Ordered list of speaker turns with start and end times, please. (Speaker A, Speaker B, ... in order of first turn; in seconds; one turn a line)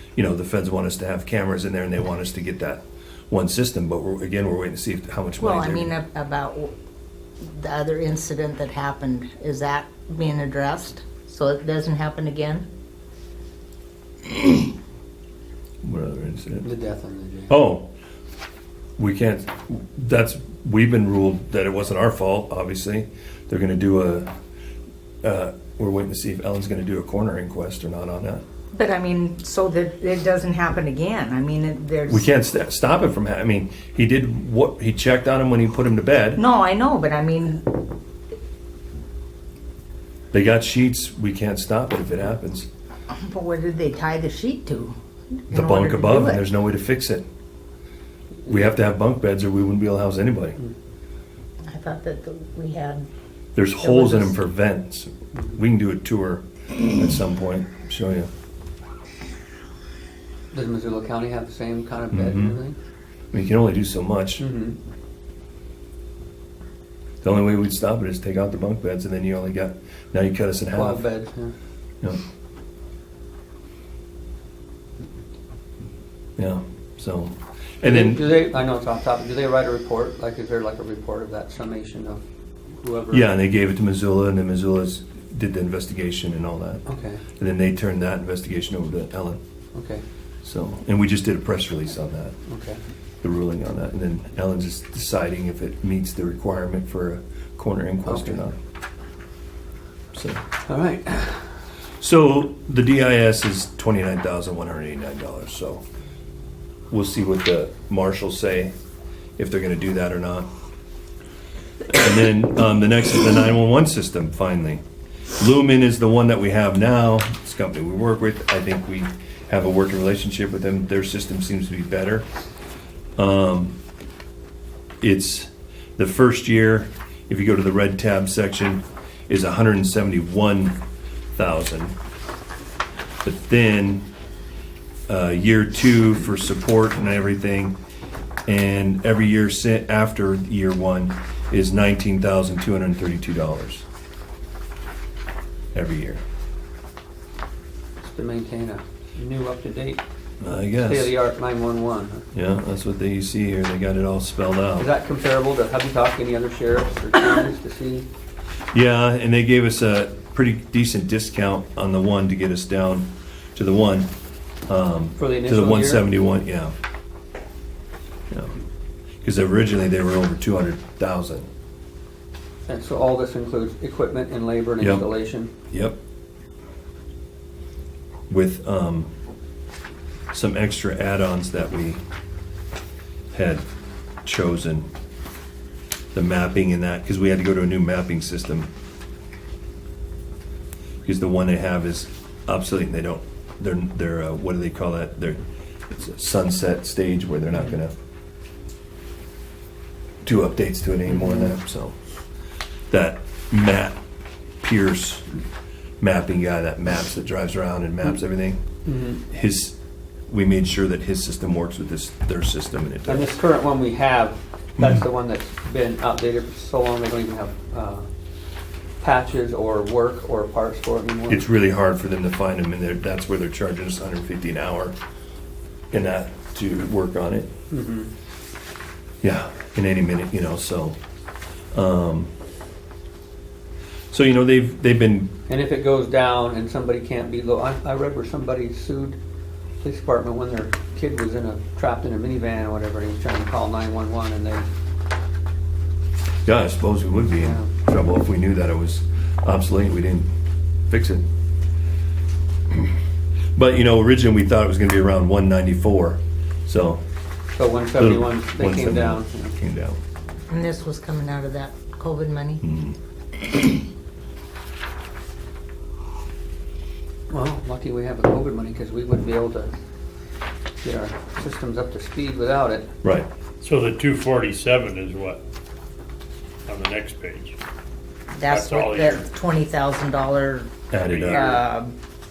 Speaker A: 0.2-5.9
Speaker B: 5.4-6.7
Speaker B: 7.5-12.7
Speaker A: 15.8-16.7
Speaker C: 16.6-17.5
Speaker A: 17.5-17.9
Speaker A: 19.0-24.3
Speaker A: 25.2-28.4
Speaker B: 28.7-32.3
Speaker A: 32.1-36.4
Speaker B: 36.4-37.7
Speaker A: 40.3-42.7
Speaker B: 43.1-45.0
Speaker B: 45.5-46.5
Speaker A: 45.5-47.2
Speaker A: 48.5-50.6
Speaker B: 51.7-53.1
Speaker A: 53.6-58.3
Speaker B: 53.8-54.4
Speaker C: 60.5-62.8
Speaker A: 62.1-62.6
Speaker A: 63.3-64.4
Speaker C: 64.4-64.8
Speaker A: 67.2-71.0
Speaker C: 70.7-71.5
Speaker A: 76.4-78.3
Speaker C: 77.8-82.2
Speaker C: 82.8-83.3
Speaker A: 83.1-86.8
Speaker C: 86.9-87.2
Speaker A: 87.4-89.4
Speaker C: 89.7-90.0
Speaker A: 90.4-92.4
Speaker C: 92.5-92.8
Speaker A: 93.2-98.6
Speaker C: 98.0-98.4
Speaker A: 100.1-100.4
Speaker C: 100.7-101.4
Speaker A: 102.0-105.8
Speaker A: 106.9-108.7
Speaker A: 109.4-110.5
Speaker A: 111.9-114.8
Speaker A: 115.4-122.3
Speaker A: 123.2-123.8
Speaker A: 125.0-130.8
Speaker A: 131.3-131.9
Speaker A: 133.2-134.1
Speaker A: 135.1-137.8
Speaker A: 138.5-143.8
Speaker A: 145.7-146.2
Speaker C: 148.0-150.0
Speaker A: 150.4-151.1
Speaker C: 150.7-152.2
Speaker A: 152.3-154.9
Speaker C: 154.8-158.1
Speaker A: 158.7-164.1
Speaker A: 164.7-166.8
Speaker C: 165.2-166.1
Speaker A: 169.2-171.5
Speaker C: 172.7-175.5
Speaker A: 174.8-175.1
Speaker A: 175.7-176.0
Speaker A: 178.3-179.1
Speaker A: 180.3-182.0
Speaker A: 183.3-183.6
Speaker A: 184.2-184.9
Speaker A: 186.1-188.7
Speaker A: 191.1-198.0
Speaker A: 200.2-202.0
Speaker C: 201.1-201.5
Speaker A: 202.9-204.0
Speaker A: 204.6-205.3
Speaker A: 206.0-208.6
Speaker C: 208.8-209.2
Speaker A: 209.3-209.8
Speaker A: 210.3-213.3
Speaker C: 213.1-218.1
Speaker C: 219.0-221.4
Speaker A: 221.3-225.0
Speaker A: 225.9-227.5
Speaker C: 227.7-228.1
Speaker A: 229.2-231.0
Speaker A: 231.7-232.3
Speaker A: 234.1-235.3
Speaker C: 235.5-239.2
Speaker C: 239.8-244.7
Speaker A: 246.4-250.3
Speaker C: 247.4-247.7
Speaker A: 250.9-251.2
Speaker A: 253.6-257.0
Speaker C: 257.6-259.6
Speaker A: 257.9-260.0
Speaker B: 260.5-262.6
Speaker A: 262.6-263.0
Speaker C: 267.3-269.7
Speaker C: 270.8-272.9
Speaker D: 273.6-275.4
Speaker D: 276.6-277.6
Speaker B: 278.3-280.7
Speaker D: 278.5-279.3
Speaker A: 280.9-281.6
Speaker D: 281.0-281.6
Speaker B: 281.2-281.9